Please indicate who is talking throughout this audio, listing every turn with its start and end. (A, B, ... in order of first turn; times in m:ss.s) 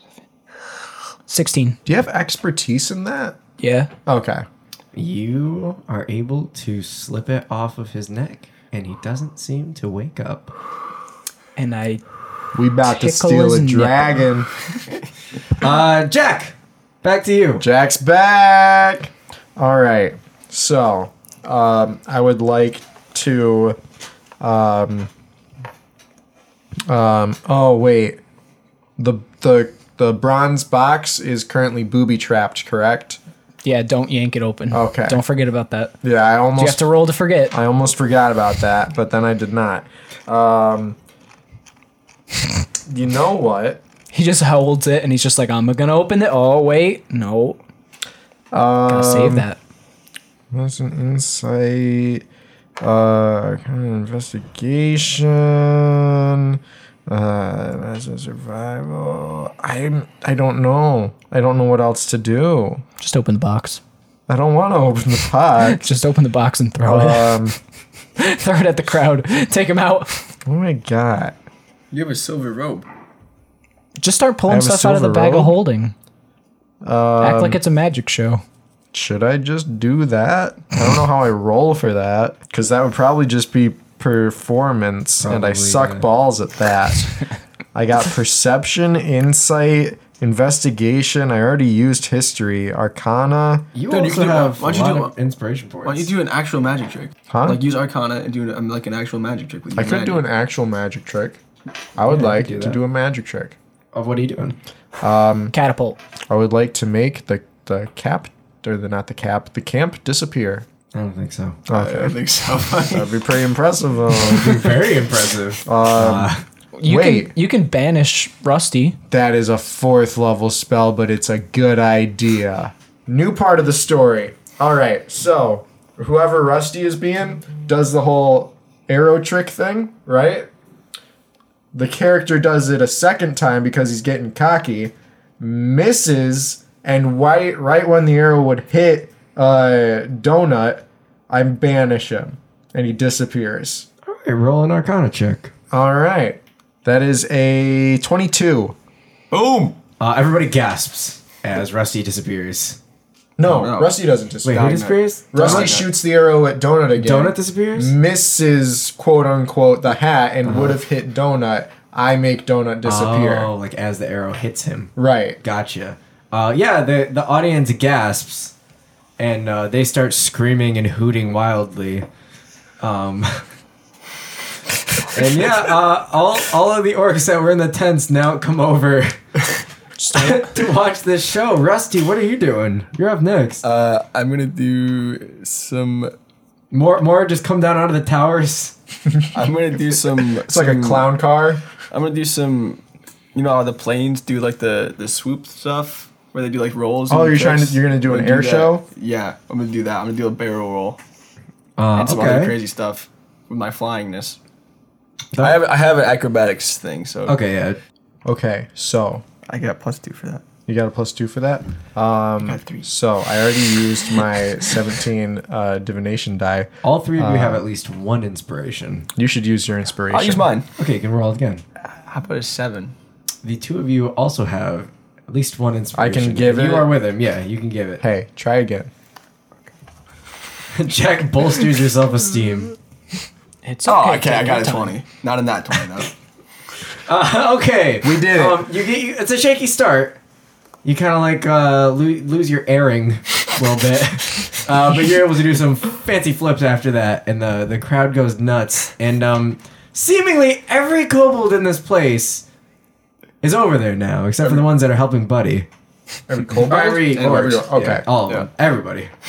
0:01.3-0:01.8 A
0:01.9-0:03.4 B
0:03.6-0:03.9 A
0:04.1-0:04.4 B
0:04.9-0:10.5 C
0:11.6-0:12.0 A
0:12.5-0:14.5 B
0:12.9-0:14.3 A
0:15.6-0:17.6 C
0:17.6-0:23.8 B
0:24.4-0:25.1 B
0:26.9-0:28.2 B
0:29.0-0:33.2 B
0:33.6-0:36.0 A
0:34.7-0:35.2 B
0:36.0-0:36.8 B
0:36.6-0:37.6 A
0:37.5-0:41.0 B
0:42.9-0:43.8 B
0:44.1-0:47.6 A
0:48.5-0:49.5 B
0:48.9-0:49.6 A
0:50.5-0:52.2 B
0:52.8-1:02.8 B
1:03.0-1:03.8 A
1:04.3-1:05.8 B
1:05.6-1:07.4 A
1:06.8-1:07.6 B
1:08.2-1:10.3 A
1:10.5-1:11.4 B
1:11.9-1:12.9 D
1:14.0-1:15.9 A
1:14.5-1:15.6 B
1:16.8-1:17.6 B
1:17.2-1:18.4 A
1:18.9-1:27.1 B
1:25.2-1:26.0 C
1:27.7-1:33.7 B
1:33.7-1:36.1 C
1:33.9-1:35.1 D
1:35.8-1:40.2 D
1:37.3-1:37.6 B
1:39.8-1:41.4 B
1:42.0-1:43.6 B
1:42.1-1:42.8 C
1:43.9-1:44.6 C
1:45.0-1:45.6 B
1:45.5-1:46.0 A
1:46.3-1:50.7 B
1:50.9-1:51.6 C
1:51.7-1:52.2 B
1:51.7-1:53.2 D
1:52.9-1:54.7 B
1:54.3-1:56.4 C
1:55.7-1:56.3 B
1:56.8-1:59.0 A
1:56.8-1:57.3 B
1:59.1-2:10.5 B
2:11.7-2:23.9 B
2:24.0-2:25.5 C
2:25.7-2:28.8 B
2:29.3-2:29.8 D
2:30.0-2:32.8 C
2:33.4-2:43.5 B
2:33.4-2:34.0 D
2:34.4-2:35.8 C
2:34.5-2:35.9 D
2:37.0-2:37.9 C
2:40.4-2:40.8 C
2:42.8-2:48.5 C
2:45.0-2:45.4 B
2:49.2-2:52.1 C
2:52.8-2:53.5 C
2:55.0-2:59.2 C
3:00.0-3:00.5 B
3:00.1-3:03.6 C
3:03.6-3:06.1 D
3:06.7-3:08.8 C
3:09.3-3:11.1 D
3:10.5-3:11.6 B
3:11.9-3:12.8 D
3:13.3-3:21.0 D
3:17.1-3:18.8 B
3:21.8-3:22.6 C
3:22.0-3:24.4 D
3:25.3-3:25.6 C
3:25.4-3:27.4 D
3:27.3-3:27.8 C
3:28.2-3:29.2 B
3:29.5-3:30.4 D
3:30.7-3:37.6 B
3:32.4-3:32.9 D
3:36.8-3:39.1 C
3:39.2-3:40.5 B
3:40.1-3:40.7 D
3:40.8-3:41.6 C
3:42.0-3:43.0 D
3:43.4-3:48.0 C
3:46.0-3:46.9 B
3:48.0-3:48.9 B
3:50.7-3:52.8 C
3:53.6-3:55.0 A
3:53.9-3:56.1 D
3:57.1-4:00.2 C
3:58.0-3:58.7 B
4:00.8-4:12.4 C
4:13.4-4:15.7 C
4:14.4-4:14.7 D
4:16.3-4:18.0 B
4:16.6-4:19.1 C
4:16.7-4:17.7 D